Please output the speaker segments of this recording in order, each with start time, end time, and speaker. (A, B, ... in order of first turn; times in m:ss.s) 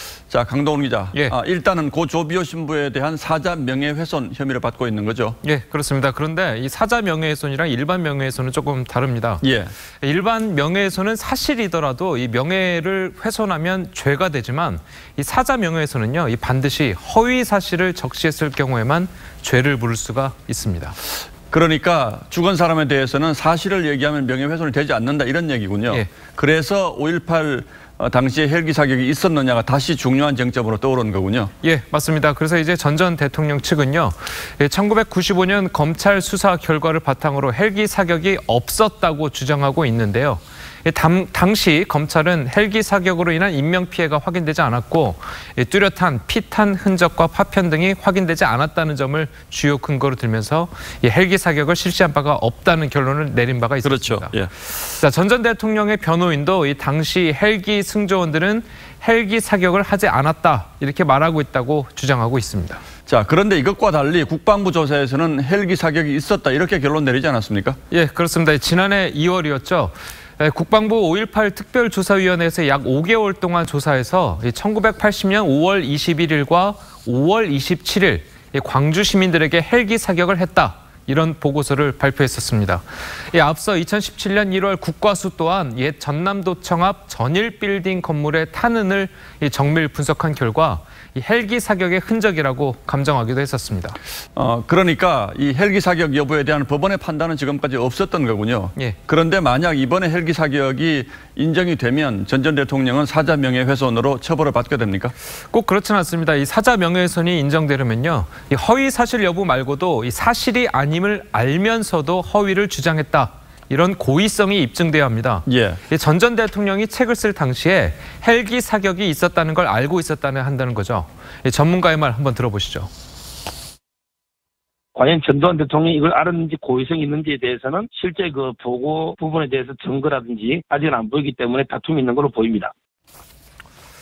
0:00.3-0:05.4 A
0:05.4-0:09.4 B
0:09.4-0:09.7 A
0:10.0-0:21.0 B
0:21.5-0:31.5 A
0:31.6-0:54.3 B
0:53.8-0:54.5 A
0:54.9-1:02.8 B
1:03.1-1:07.8 A
1:07.9-1:34.0 B
1:34.4-1:45.1 A
1:45.5-2:02.9 B
1:55.5-1:55.8 A
2:04.9-2:12.7 C